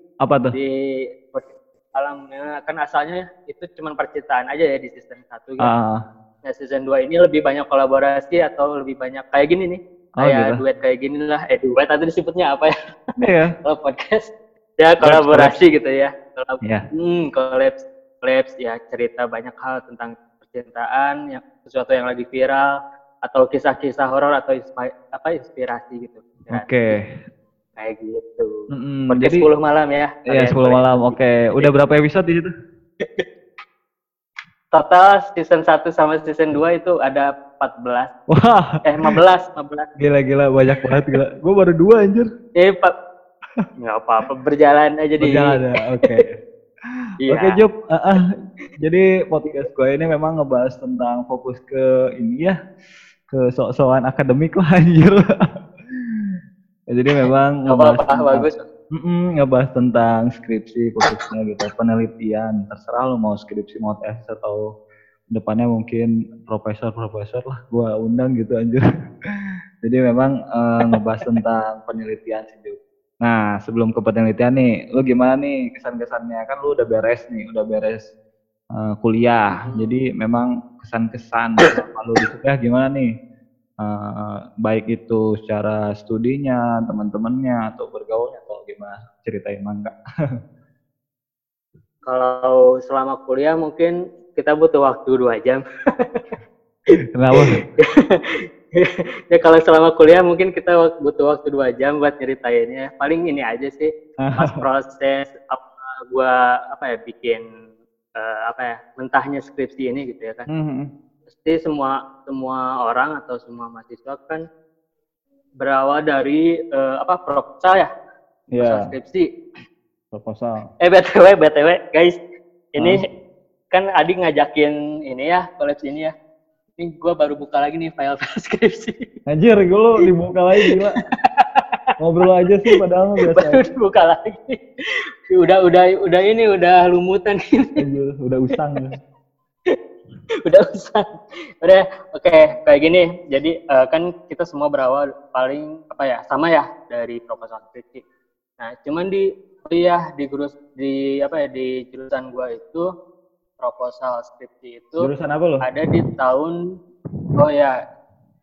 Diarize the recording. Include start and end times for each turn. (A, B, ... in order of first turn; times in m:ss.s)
0:00.2-0:00.6 A
0:00.5-0:05.7 B
0:05.6-0:06.0 A
0:06.4-0:12.7 B
0:10.2-0:10.6 A
0:13.2-0:13.5 A
0:13.6-0:22.7 B
0:15.0-0:15.5 A
0:23.2-0:27.0 B
0:26.5-0:27.1 A
0:27.8-0:31.7 B
0:28.7-0:29.5 A
0:30.3-0:32.5 A
0:34.7-0:38.1 B
0:38.3-0:39.2 A
0:38.8-0:39.8 B
0:40.0-0:42.3 A
0:40.8-0:41.1 B
0:42.6-0:42.9 B
0:43.8-0:45.6 B
0:45.2-0:46.3 A
0:47.2-0:47.6 B
0:47.3-0:52.6 A
0:53.3-0:55.2 A
0:55.9-0:56.3 A
0:56.9-1:04.6 A
0:57.2-0:58.6 B
1:05.3-1:08.8 A
1:09.8-1:18.1 A
1:10.9-1:11.4 B
1:18.7-1:23.1 A
1:19.6-1:20.0 B
1:23.8-1:29.9 A
1:32.0-1:35.6 B
1:37.1-1:37.6 A
1:37.3-1:38.2 B
1:38.7-1:47.4 B
1:44.2-1:44.6 A
1:48.2-1:50.5 B
1:50.5-1:50.9 A
1:51.3-1:54.4 B
1:55.6-1:57.9 B
1:58.5-1:58.8 A
1:58.6-1:59.3 B
2:00.1-2:00.7 A
2:00.8-2:02.2 B
2:02.7-2:03.0 B
2:03.7-2:06.1 B
2:06.8-2:09.0 B
2:09.3-2:11.0 A
2:11.4-2:11.6 B
2:12.0-2:13.6 A
2:12.2-2:12.8 B
2:13.3-2:14.6 B
2:15.3-2:17.8 B
2:17.8-2:19.0 A
2:20.4-2:28.0 B
2:28.6-2:32.8 B
2:33.6-2:35.1 B
2:35.0-2:36.0 A
2:35.6-2:36.6 B
2:37.4-2:37.8 B